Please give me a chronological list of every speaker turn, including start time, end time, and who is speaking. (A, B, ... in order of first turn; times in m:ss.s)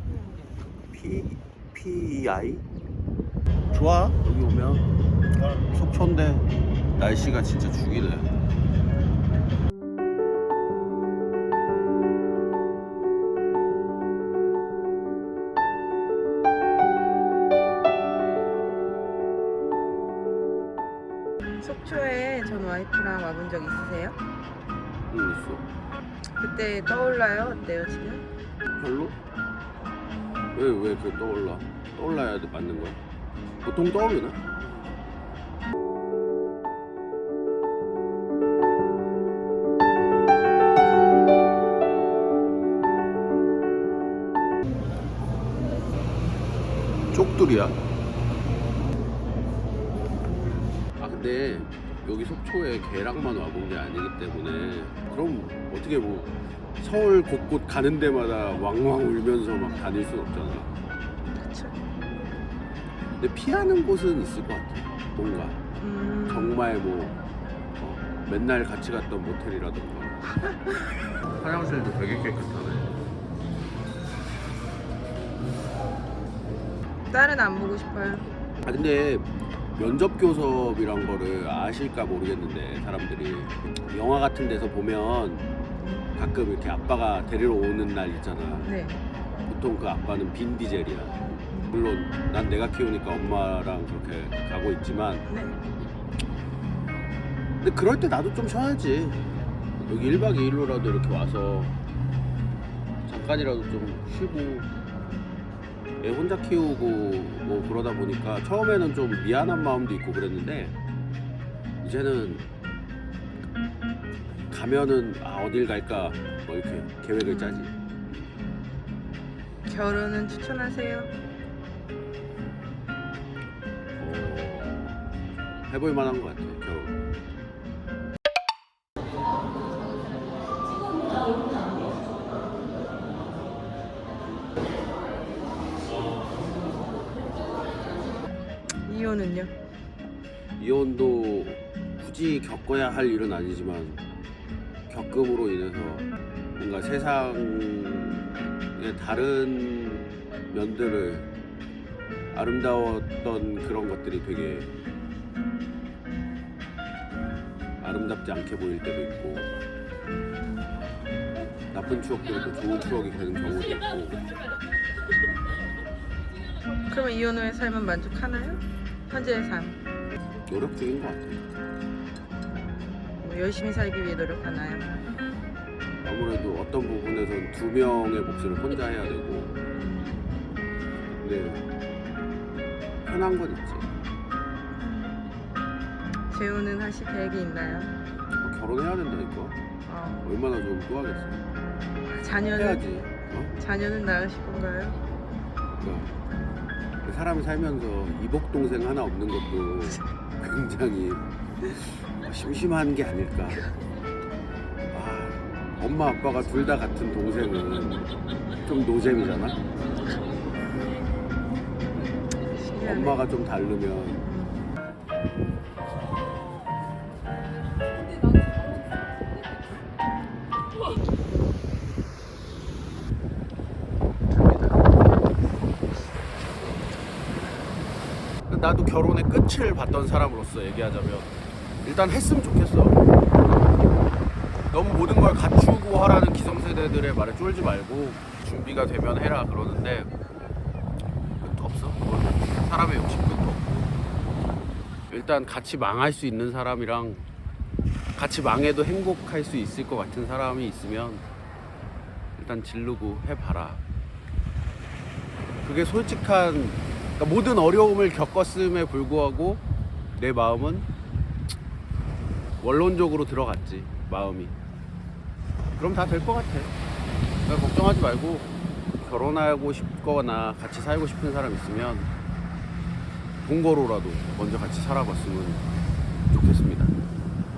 0:00.9-0:02.6 A
0:03.7-0:04.9 A
0:05.5-0:06.5 A
0:07.0-0:08.3 A
0:21.6-0:24.2 B
0:25.1-0:25.6 A
0:26.4-0:28.2 B
0:28.8-0:29.2 A
0:30.5-0:33.0 A
0:33.6-0:34.4 A
0:47.1-0:47.8 A
0:51.0-1:00.7 A
1:01.4-1:01.8 B
1:03.2-1:05.6 A
1:05.8-1:06.6 B
1:06.3-1:07.2 A
1:07.8-1:10.3 A
1:11.2-1:13.0 A
1:17.1-1:18.3 B
1:18.6-1:25.5 A
1:25.7-1:26.1 B
1:26.2-1:28.7 A
1:28.6-1:29.0 B
1:29.5-1:35.3 A
1:35.3-1:35.5 B
1:37.6-1:39.2 A
1:39.8-1:41.7 A
1:43.0-1:44.7 A
1:46.0-1:50.8 A
1:51.8-1:52.4 A
1:54.5-1:57.7 A
1:57.3-1:57.5 B
1:59.7-2:01.1 B
2:04.0-2:05.0 A
2:05.7-2:07.0 A
2:18.8-2:19.5 B
2:20.6-2:24.0 A
2:24.9-2:31.3 A
2:32.3-2:34.7 A
2:37.8-2:39.5 A
2:41.7-2:44.3 A
2:46.9-2:49.8 B
2:50.5-2:51.4 A
2:53.0-2:55.0 B
2:56.0-2:59.6 A
2:59.8-3:00.3 B
3:01.2-3:01.6 A
3:03.0-3:03.9 A
3:04.9-3:05.1 B
3:06.3-3:07.9 B
3:08.3-3:09.6 A
3:09.9-3:10.3 B
3:10.2-3:11.4 A
3:12.1-3:12.9 B
3:12.5-3:13.5 A
3:13.6-3:15.0 B
3:15.8-3:16.1 A
3:17.0-3:23.7 A
3:24.9-3:28.1 A
3:28.6-3:29.6 A
3:32.5-3:33.2 B
3:32.8-3:34.3 A
3:34.3-3:34.6 B
3:44.3-3:44.8 A
3:48.5-3:51.3 A
3:51.8-3:53.0 A
3:54.7-4:00.1 A
4:01.4-4:03.8 A
4:05.1-4:07.2 A
4:08.2-4:11.2 A
4:12.4-4:13.8 A
4:15.6-4:19.6 A
4:20.2-4:20.9 A
4:22.6-4:24.5 A
4:25.8-4:26.7 A
4:27.5-4:28.5 A
4:29.0-4:32.1 A
4:33.4-4:35.6 A
4:36.3-4:36.9 A